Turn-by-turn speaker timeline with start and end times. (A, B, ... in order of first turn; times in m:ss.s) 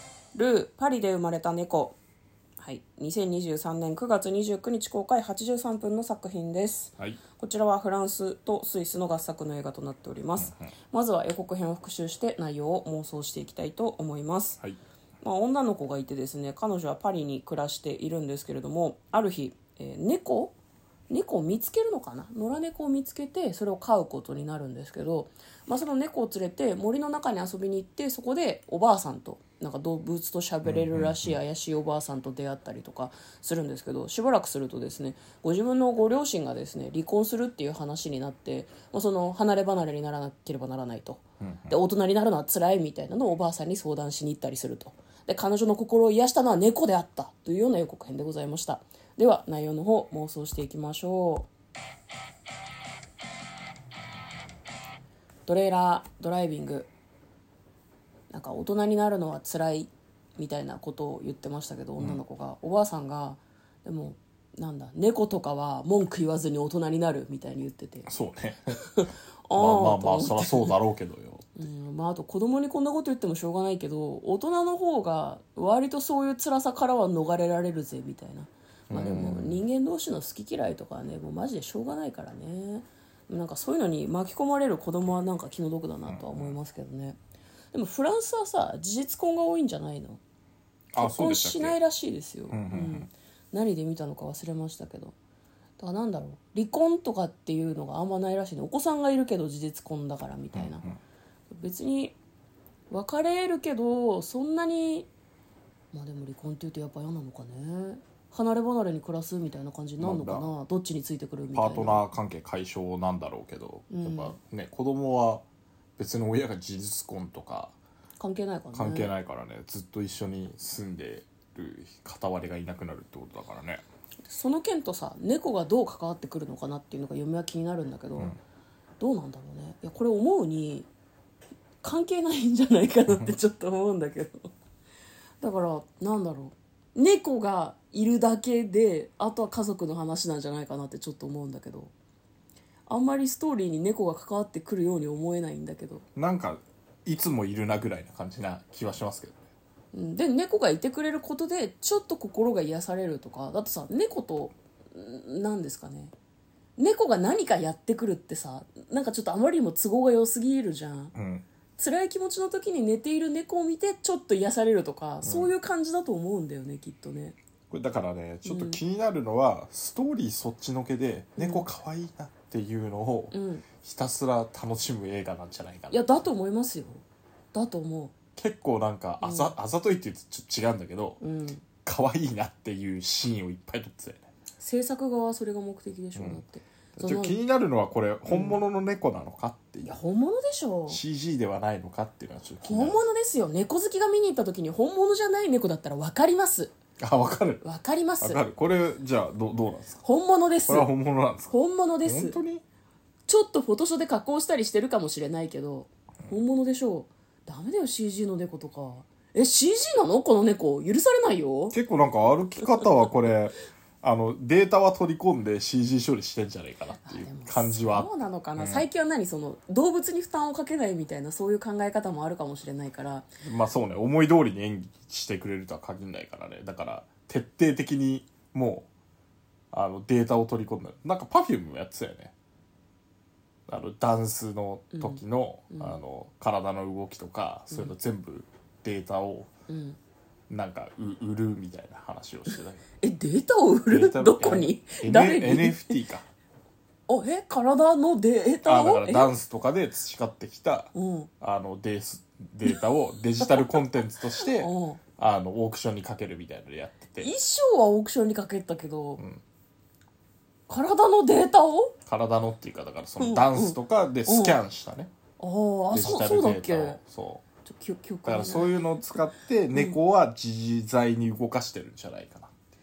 0:00.3-0:02.0 A
0:02.6-0:14.6 A
0:10.4-0:10.7 B
0:15.2-0:20.5 A
0:21.1-0:51.5 A
0:30.6-0:31.4 B
0:41.4-0:41.7 B
0:55.5-0:56.9 A
0:58.3-1:08.1 A
1:08.0-1:08.8 B
1:08.7-1:10.7 A
1:09.6-1:11.6 B
1:11.6-1:27.2 A
1:18.9-1:19.6 B
1:26.1-1:26.6 B
1:27.7-1:30.2 A
1:30.9-1:31.8 B
1:31.0-1:35.1 A
1:32.5-1:33.1 B
1:35.8-1:40.8 A
1:40.5-1:41.0 B
1:41.5-1:42.2 A
1:42.9-1:45.1 A
1:45.9-1:52.0 A
1:50.0-1:50.5 B
1:51.5-1:55.4 B
1:53.9-1:54.4 A
1:56.0-1:57.7 B
1:58.2-1:59.1 A
1:58.7-2:03.8 B
2:04.3-2:08.3 A
2:09.0-2:10.9 A
2:11.8-2:14.5 A
2:13.1-2:13.3 B
2:15.4-2:21.9 A
2:22.9-2:26.0 A
2:26.2-2:29.4 B
2:29.9-2:36.1 A
2:36.8-2:41.1 A
2:41.1-2:41.5 B
2:41.8-2:47.4 A
2:45.2-2:45.5 B
2:47.7-2:56.0 B
2:48.4-2:48.8 A
2:51.4-2:51.7 A
2:53.3-2:53.6 A
2:55.9-2:57.0 A
2:57.5-2:58.1 A
2:58.4-3:01.2 B
2:59.2-2:59.5 A
3:01.2-3:01.6 A
3:01.8-3:04.2 B
3:04.6-3:07.4 A
3:06.2-3:06.4 B
3:07.0-3:09.9 B
3:08.3-3:08.6 A
3:09.8-3:11.0 A
3:10.9-3:13.0 B
3:12.6-3:16.7 A
3:17.0-3:17.6 B
3:17.6-3:18.4 A
3:18.2-3:20.0 B
3:20.0-3:20.9 A
3:20.7-3:22.6 B
3:21.5-3:22.4 A
3:23.3-3:31.7 A
3:31.7-3:38.8 B
3:37.0-3:43.2 A
3:43.4-3:48.9 B
3:49.7-3:52.3 B
3:53.7-3:59.5 B
3:54.9-3:55.2 A
3:55.7-3:56.0 A
3:59.7-4:00.0 A
4:00.5-4:02.8 B
4:03.0-4:05.9 A
4:03.9-4:06.2 B
4:07.1-4:09.3 A
4:08.6-4:17.3 B
4:10.9-4:11.3 A
4:14.4-4:15.0 A
4:17.2-4:19.2 A
4:20.7-4:21.9 A
4:22.0-4:25.1 B
4:23.2-4:24.6 A
4:25.4-4:27.0 A
4:25.9-4:27.4 B
4:27.6-4:28.8 A
4:28.2-4:32.5 B